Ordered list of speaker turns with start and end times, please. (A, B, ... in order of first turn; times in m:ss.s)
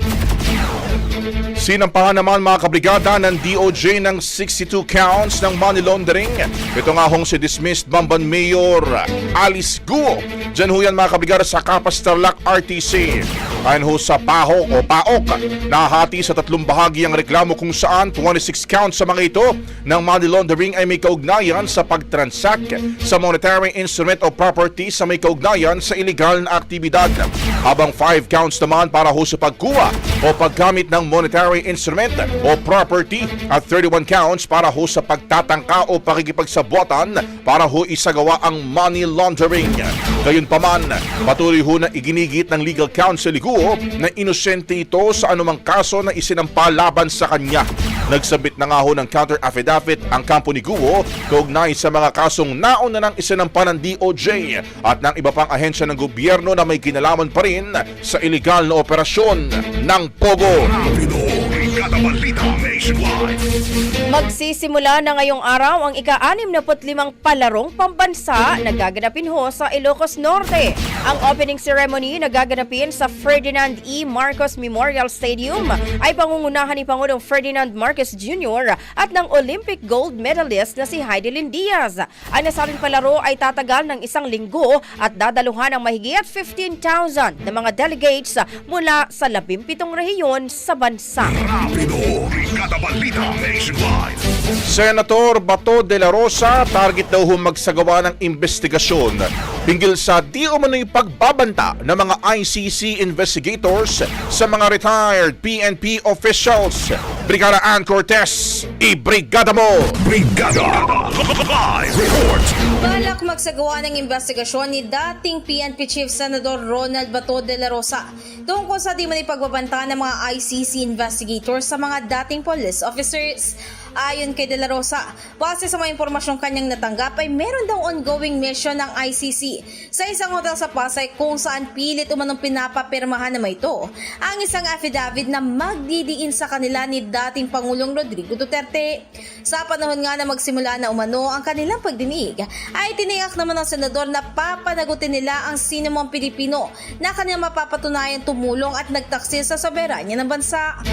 0:01.6-1:00.7 A
1:00.6-1:03.4 B
1:04.1-1:31.4 C
1:31.2-1:34.2 B
1:34.7-1:50.0 A
1:50.0-1:52.6 B
1:52.8-2:30.7 D